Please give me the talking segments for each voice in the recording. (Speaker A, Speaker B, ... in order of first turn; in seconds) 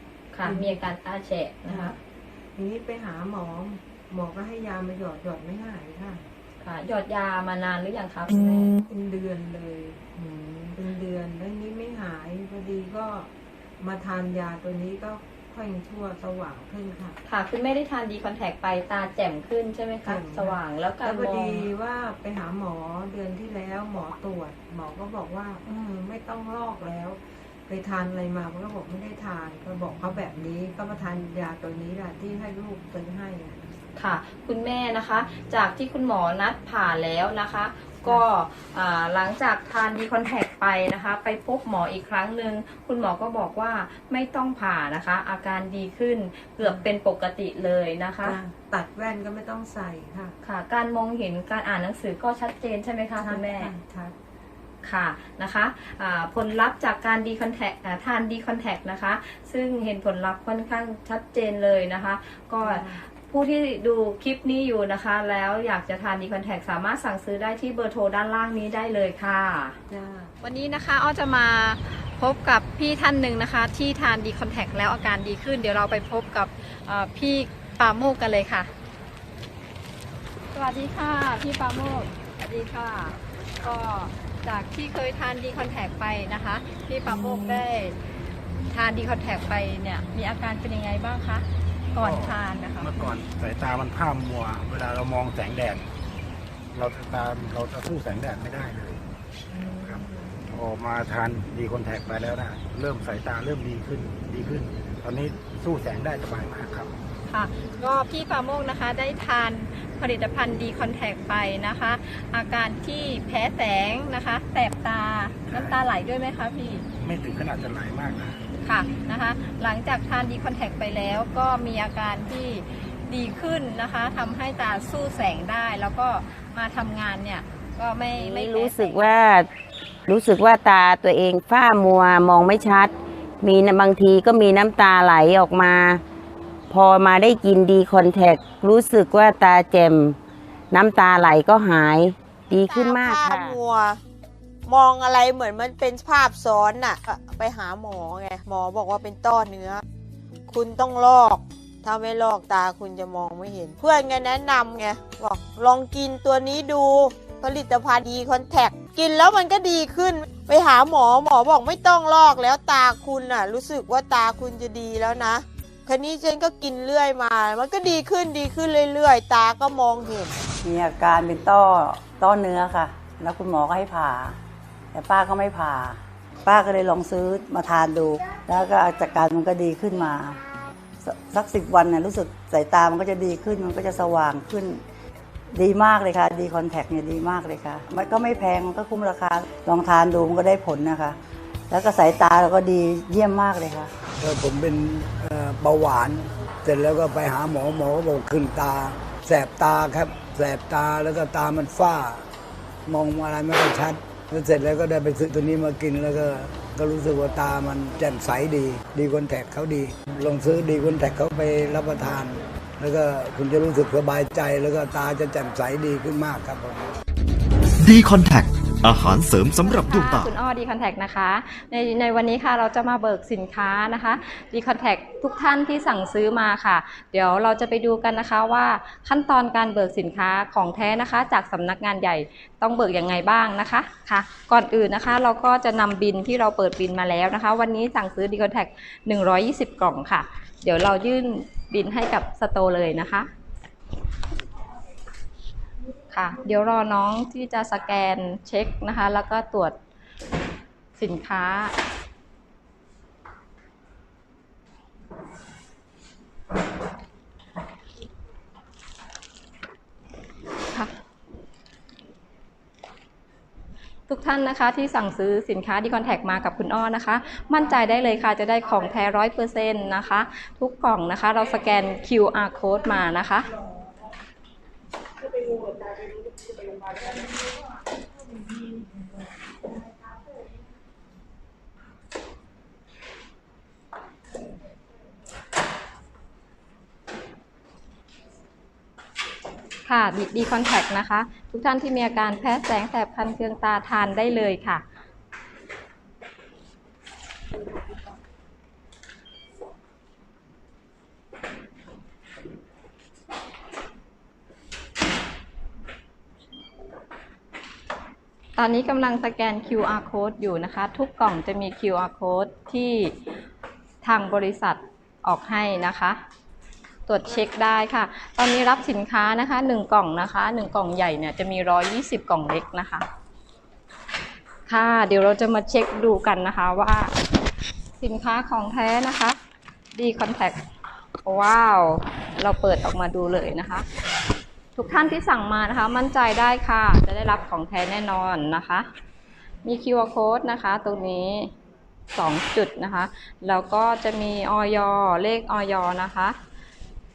Speaker A: 0.3-2.0, 6.6-8.7, 17.3-21.7, 34.0-48.4, 50.4-53.7, 54.8-69.8, 70.4-78.7, 80.5-88.0, 88.7-92.9, 107.3-116.8, 118.6-129.1, 219.8-243.3, 246.1-249.8, 251.0-251.8, 264.1-273.5, 289.9-294.8, 308.6-313.1, 314.0-316.2, 317.1-323.1, 324.7-327.1, 328.0-329.4, 329.9-330.6, 331.2-333.9, 334.8-338.9, 339.6-341.5, 342.1-346.4
Speaker B: 0.4-0.8, 1.7-2.0, 2.5-6.3, 8.8-17.2, 20.0-33.8, 46.6-46.9, 48.2-50.4, 53.2-54.2, 62.6-63.1, 69.9-70.3, 99.6-100.3
Speaker C: 92.0-95.9, 96.7-99.0, 99.8-106.9, 115.5-115.8, 117.0-118.4
Speaker D: 128.2-129.5, 130.1-132.9, 133.4-136.0, 136.7-140.2, 140.7-143.5
Speaker E: 142.5-144.0, 144.7-149.8, 150.5-170.3
Speaker F: 170.6-174.4, 174.9-180.4, 181.0-184.8, 185.5-191.2, 191.7-193.9
Speaker G: 194.2-202.2, 202.9-216.9
Speaker H: 217.8-220.3